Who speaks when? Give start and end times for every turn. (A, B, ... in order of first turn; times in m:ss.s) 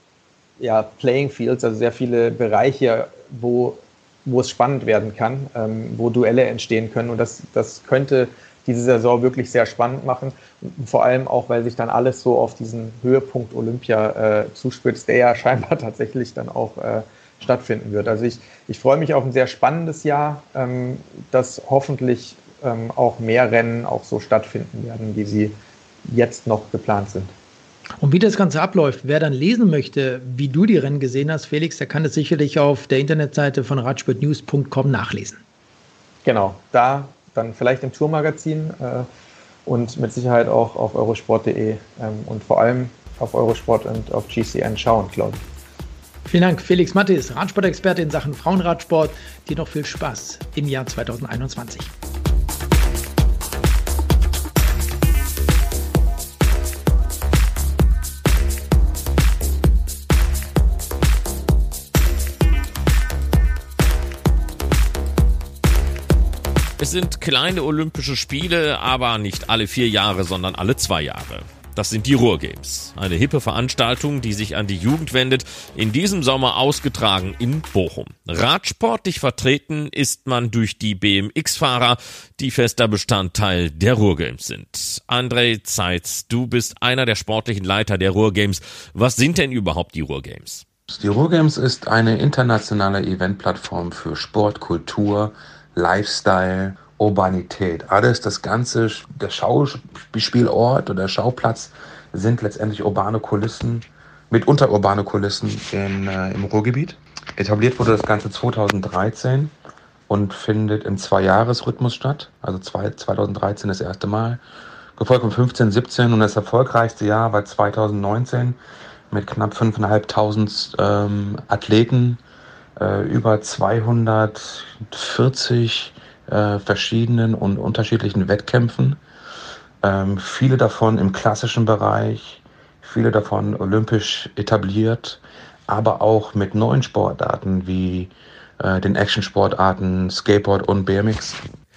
0:00.6-0:25.5 A
0:26.1-0:27.3 A
0:28.0-0:35.4 B
0:36.2-0:39.1 A
0:39.6-0:45.4 A
0:46.3-0:51.9 B
1:06.8-1:30.6 C
1:30.9-1:49.5 D
1:50.1-1:54.4 D
1:55.0-1:58.6 D
1:59.1-2:02.2 D
2:02.8-2:09.0 D
2:09.8-2:21.4 D